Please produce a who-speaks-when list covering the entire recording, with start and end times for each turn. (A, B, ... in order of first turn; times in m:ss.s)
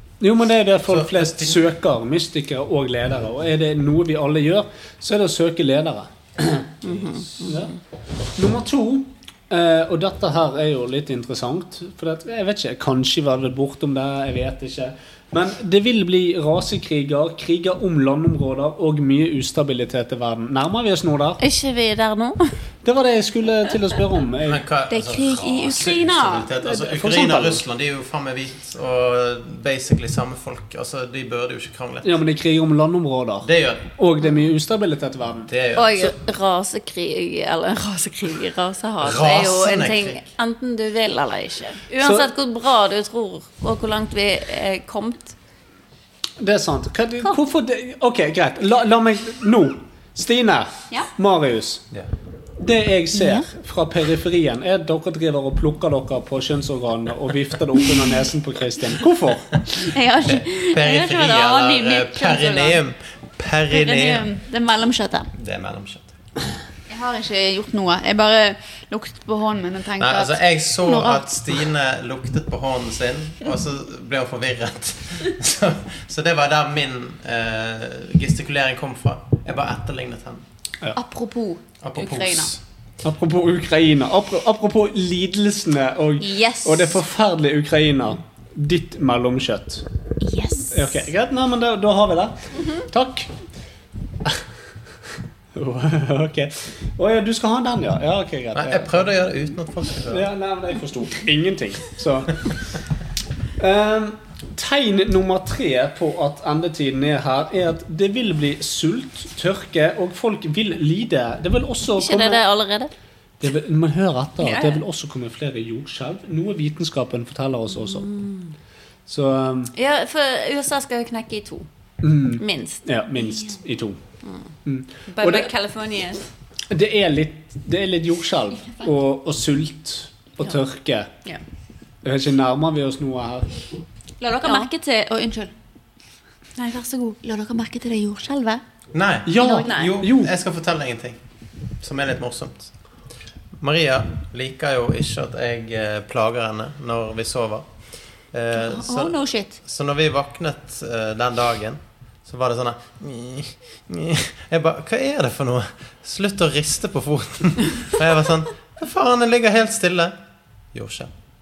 0:00.2-0:06.7 A
0:00.9-0:01.6 B
0:06.8-0:07.4 C
0:07.4-0:07.7 A
0:08.4-0:21.4 A
0:21.4-0:22.4 C
0:22.8-0:24.6 A
0:24.4-0:32.2 B
0:24.9-0:26.5 D
0:26.6-0:27.6 A
0:32.0-0:35.5 A
0:33.4-0:33.9 B
0:35.5-0:36.2 B
0:35.8-0:45.4 C
0:39.0-0:40.2 B
0:42.0-0:42.3 A
0:46.4-0:51.8 A
0:52.6-0:59.6 A
0:59.7-1:02.8 D
1:00.2-1:04.3 B
1:03.7-1:05.3 D
1:05.4-1:06.1 B
1:06.9-1:11.4 D
1:10.0-1:20.4 B
1:21.0-1:22.5 D
1:21.8-1:22.6 B
1:23.0-1:29.8 A
1:26.2-1:27.0 D
1:30.2-1:31.0 D
1:30.7-1:33.3 A
1:35.6-1:39.3 A
1:38.5-1:40.3 B
1:40.1-1:42.6 A
1:43.6-1:52.4 A
1:52.0-1:52.9 C
1:53.4-1:58.1 A
1:54.4-1:54.8 C
1:57.9-1:58.5 C
1:59.1-1:59.7 A
1:59.7-2:01.7 C
2:02.0-2:04.0 A
2:02.4-2:02.8 C
2:04.6-2:05.5 A
2:05.1-2:06.3 C
2:06.7-2:11.1 A
2:12.0-2:13.5 A
2:14.2-2:15.5 D
2:14.4-2:14.7 C
2:16.6-2:18.6 D
2:18.9-2:21.2 B
2:19.3-2:20.3 A
2:19.6-2:20.0 C
2:21.8-2:22.7 B
2:23.6-2:27.7 B
2:28.3-2:40.2 B
2:28.5-2:29.6 D
2:40.7-2:41.1 B